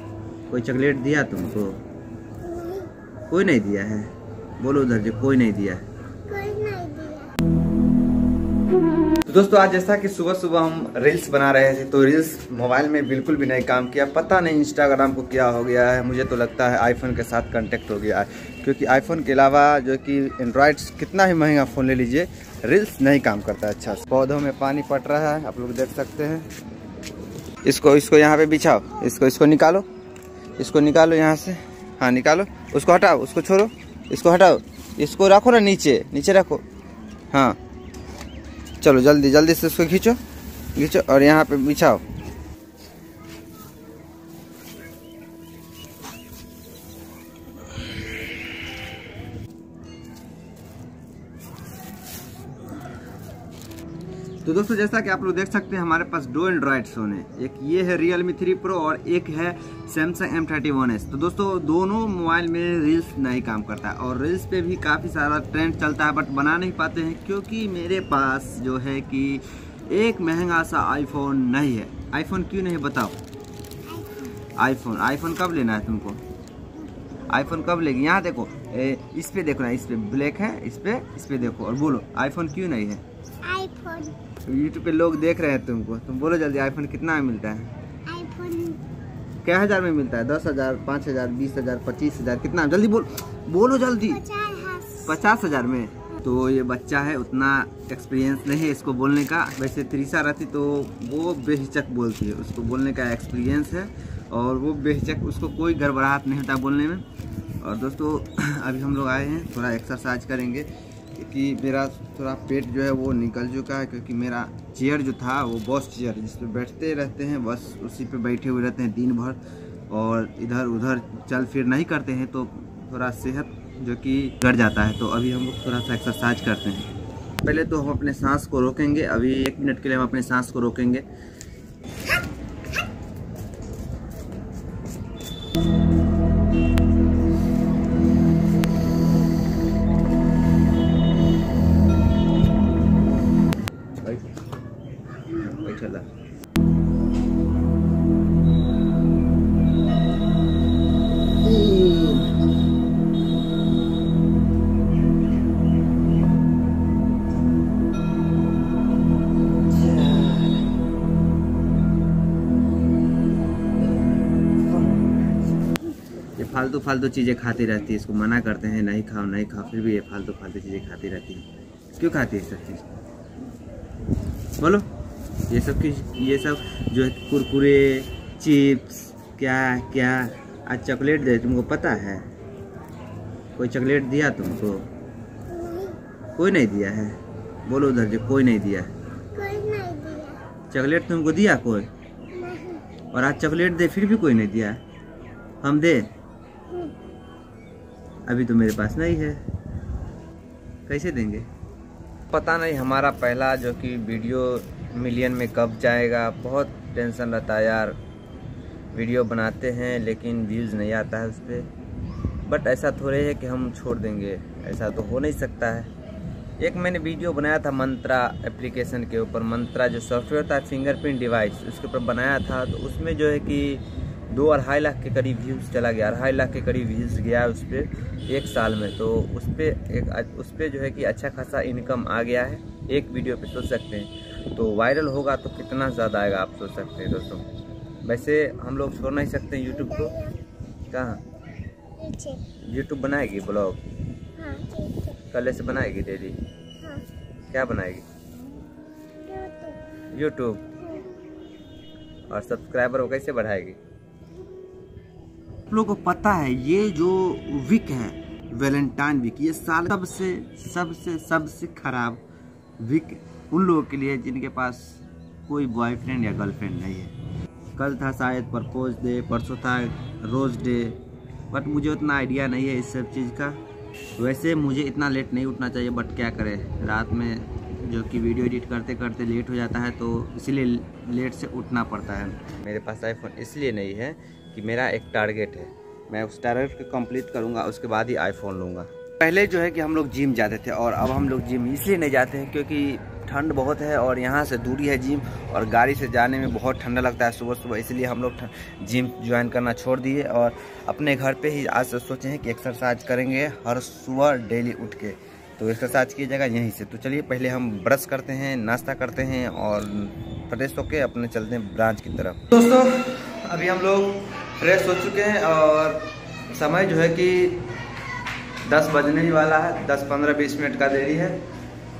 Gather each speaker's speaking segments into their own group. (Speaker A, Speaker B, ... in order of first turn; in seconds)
Speaker A: 0.5-1.8, 3.3-5.8, 9.2-26.5, 27.6-29.9, 30.6-36.6, 37.3-37.6, 38.8-40.2, 40.7-42.0, 54.4-73.2, 74.5-76.2, 77.3-83.0, 84.4-87.7, 89.4-94.2, 95.0-107.0, 107.6-126.9, 127.4-131.0, 144.0-144.2, 145.3-146.1, 151.4-152.3, 159.7-160.6, 166.3-172.9, 174.6-174.9, 175.5-182.3, 183.6-184.9, 186.3-188.9, 190.7-191.9, 193.1-194.8, 195.6-196.1, 198.3-199.4, 200.9-201.5, 202.3-208.0, 208.9-211.7, 212.4-215.9, 216.6-237.5, 238.0-240.2, 240.9-241.2, 242.6-243.8, 245.3-246.4, 247.5-248.1, 250.1-250.6, 252.3-253.8, 255.7-262.2, 262.8-267.1, 267.8-273.6, 274.2-317.7, 318.6-321.4
Speaker B: 2.4-2.9, 6.3-7.3, 73.9-74.3, 83.4-84.1, 88.1-88.8, 94.1-95.0, 185.5-186.0, 189.3-190.4, 192.3-192.8, 239.9-240.4, 242.0-242.4, 244.3-245.2, 249.2-249.8, 250.8-251.1